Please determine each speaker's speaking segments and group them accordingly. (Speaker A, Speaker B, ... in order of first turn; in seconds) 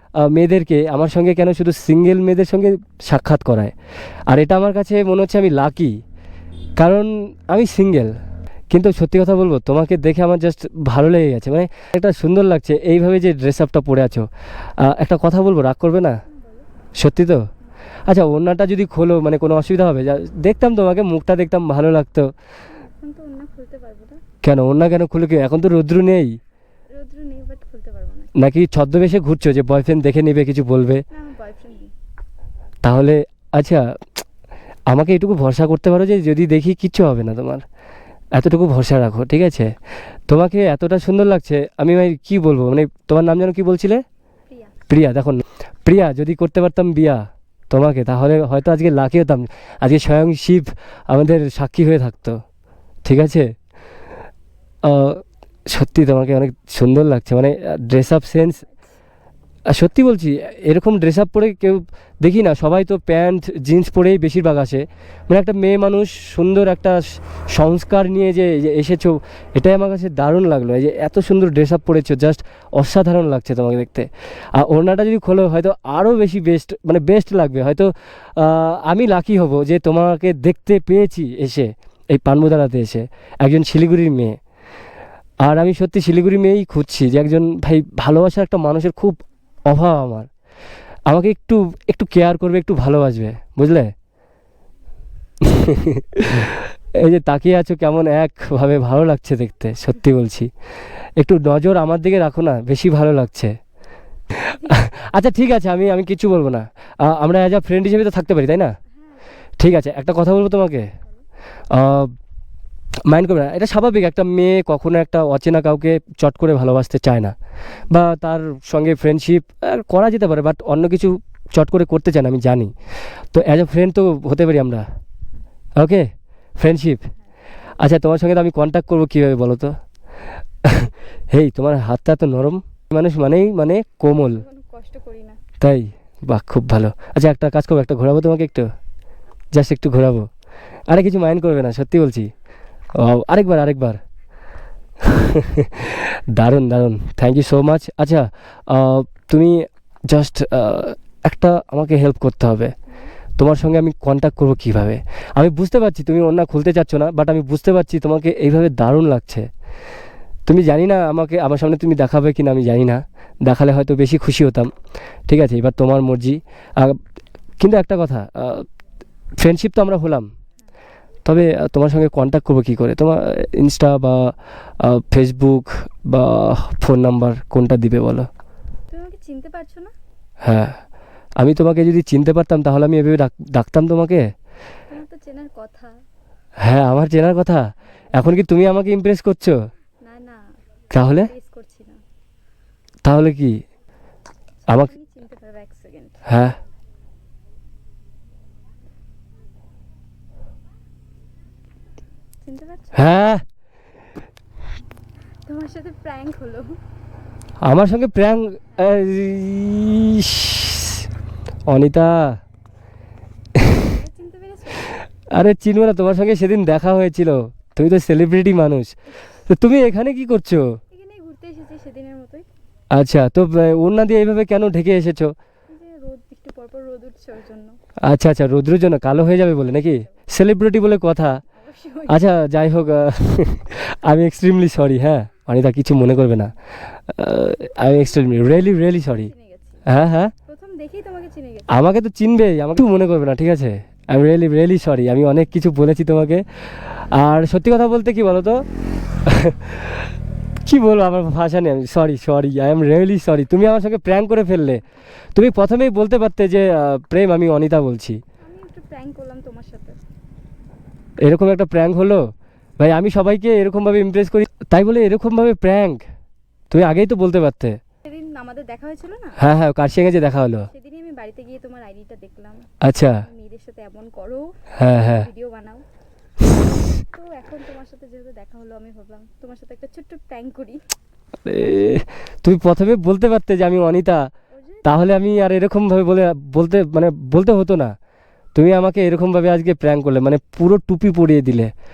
Speaker A: 0.2-3.7, 4.3-6.0, 6.8-8.1, 8.7-16.2, 16.9-17.5, 18.0-22.3, 24.4-26.4, 28.3-31.0, 32.8-33.9, 34.9-37.6, 38.3-39.8, 40.3-44.0, 44.9-52.4, 53.0-53.5, 54.8-58.6, 59.7-84.4, 85.4-90.3, 91.1-93.9, 95.4-100.5, 101.2-103.6, 104.4-108.8, 109.6-110.9, 111.7-112.1, 113.1-122.7, 123.3-124.8, 125.8-127.1, 127.8-129.7, 130.6-134.4, 135.6-138.7, 139.5-140.3, 140.9-142.3, 142.9-144.0, 145.0-152.7, 153.4-159.5, 160.5-164.7, 165.3-167.0, 167.6-168.7, 169.4-170.3, 171.2-178.3, 180.4-180.8, 181.4-184.3, 186.6-189.6, 190.9-191.3, 193.0-193.6, 196.2-196.6, 202.9-203.4, 207.6-211.0, 211.7-212.4, 215.3-220.8, 222.9-225.3, 228.0-231.4, 232.1-239.3, 239.8-240.3, 241.7-248.6, 249.2-250.0, 250.6-258.2, 261.2-266.0, 266.7-267.8, 269.4-270.7, 272.8-273.2, 274.8-275.3, 281.4-284.3, 284.8-287.9, 288.5-291.7
Speaker B: 16.2-16.7, 22.7-24.2, 26.9-28.3, 31.1-31.9, 44.5-44.8, 58.6-58.9, 104.4-104.9, 108.9-109.5, 134.1-135.4, 152.9-153.1, 178.9-179.9, 184.9-186.0, 190.0-190.6, 191.1-192.0, 194.7-196.3, 202.4-203.3, 205.4-206.8, 213.7-215.0, 220.9-222.5, 225.7-227.8, 231.6-232.3, 238.9-239.8, 240.5-241.8, 258.4-260.0, 268.0-269.4, 270.7-275.8, 276.9-280.9, 284.5-285.2